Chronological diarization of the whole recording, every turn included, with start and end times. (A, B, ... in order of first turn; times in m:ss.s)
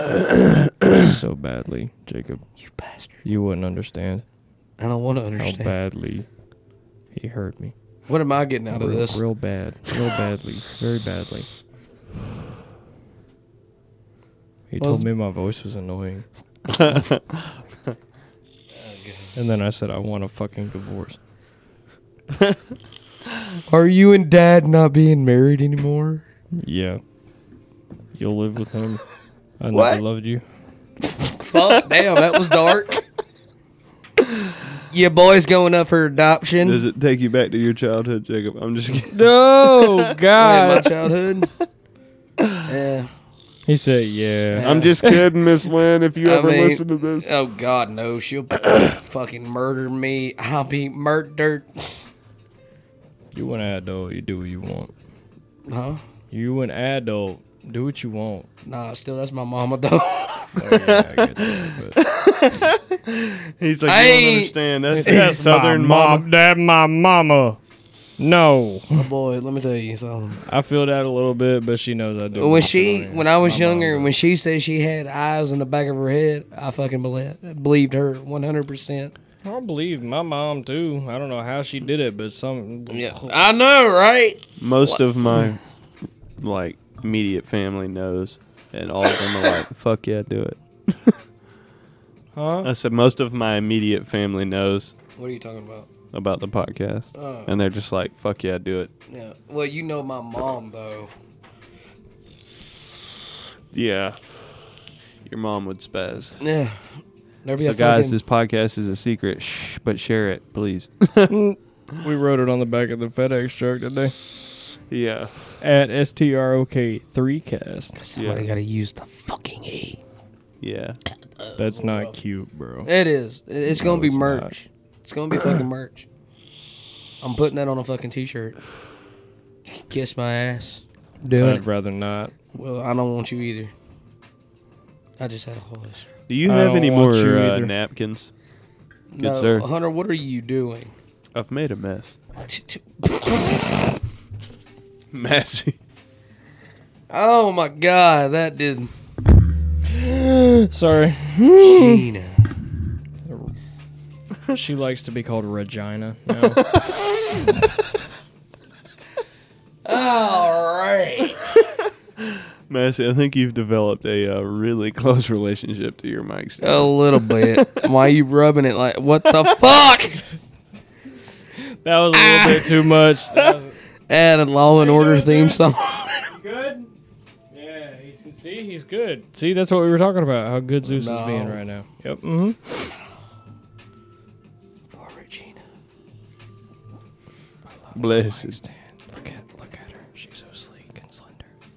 0:00.1-0:01.0 A
0:00.9-0:02.4 B
0:02.6-0:03.2 C
0:03.2-0:04.2 B
0:04.8-0:05.7 C
0:05.4-0:06.2 B
0:07.1-0:07.7 B
0:08.1-0:09.2 C
0:08.7-0:11.5 B
0:14.7-0:16.2 B
0:14.8-0:15.1 C
0:16.7-0:17.9 A
0:18.8-0:19.3 C
0:19.3-0:21.2 B
0:23.7-0:26.2 C
0:26.6-0:27.0 B
0:28.1-0:29.0 B
0:29.6-0:30.4 B
0:29.7-0:30.0 C
0:31.2-0:33.0 C
0:31.6-0:31.9 A
0:34.9-0:36.8 C
0:36.6-0:39.2 A
0:39.1-0:40.9 B
0:39.8-0:40.1 A
0:40.4-0:41.5 C
0:42.6-0:43.1 C
0:43.7-0:45.2 B
0:44.5-0:45.1 C
0:44.6-0:47.3 A
0:46.2-0:51.9 C
0:53.3-0:54.9 B
0:55.6-0:56.0 C
0:56.3-0:58.5 B
0:58.6-1:00.6 C
1:00.6-1:02.0 B
1:00.6-1:06.2 A
1:03.8-1:05.4 C
1:05.0-1:07.6 B
1:08.2-1:09.1 B
1:08.9-1:10.4 C
1:10.4-1:14.1 B
1:12.3-1:19.1 C
1:19.4-1:23.3 B
1:22.9-1:25.0 C
1:24.6-1:25.6 A
1:26.4-1:31.2 A
1:32.3-1:32.7 B
1:32.6-1:34.9 A
1:35.2-1:35.9 C
1:36.1-1:38.9 A
1:37.1-1:37.5 C
1:39.1-1:41.1 C
1:43.7-1:44.2 A
1:45.2-1:46.4 A
1:46.4-1:46.8 C
1:47.4-1:48.2 C
1:47.6-1:51.3 A
1:51.3-1:54.1 B
1:54.9-1:55.3 A
1:55.6-1:58.0 B
1:58.0-2:00.0 C
1:58.2-1:58.4 A
2:00.6-2:01.0 A
2:01.4-2:02.1 C
2:01.6-2:02.9 B
2:02.8-2:06.0 C
2:03.7-2:04.5 B
2:07.2-2:08.6 C
2:09.7-2:11.6 C
2:11.4-2:12.3 B
2:12.5-2:13.7 C
2:15.2-2:16.1 C
2:16.3-2:18.3 A
2:16.4-2:17.7 B
2:19.1-2:20.9 C
2:19.2-2:19.7 A
2:21.3-2:22.1 A
2:22.4-2:23.8 C
2:25.1-2:25.8 A
2:27.1-2:28.9 C
2:30.0-2:30.7 C
2:30.7-2:32.0 B
2:31.6-2:32.4 C
2:33.2-2:33.5 B
2:34.5-2:36.7 B
2:39.8-2:41.4 C
2:42.2-2:47.9 A
2:46.6-2:50.2 C
2:51.6-2:53.8 B
2:52.1-2:52.8 C
2:54.1-2:56.2 C
2:54.7-2:55.7 B
2:56.3-2:56.9 B
2:57.5-3:02.9 B
3:00.8-3:01.6 C
3:04.9-3:05.6 C
3:07.8-3:11.4 B
3:07.9-3:08.6 A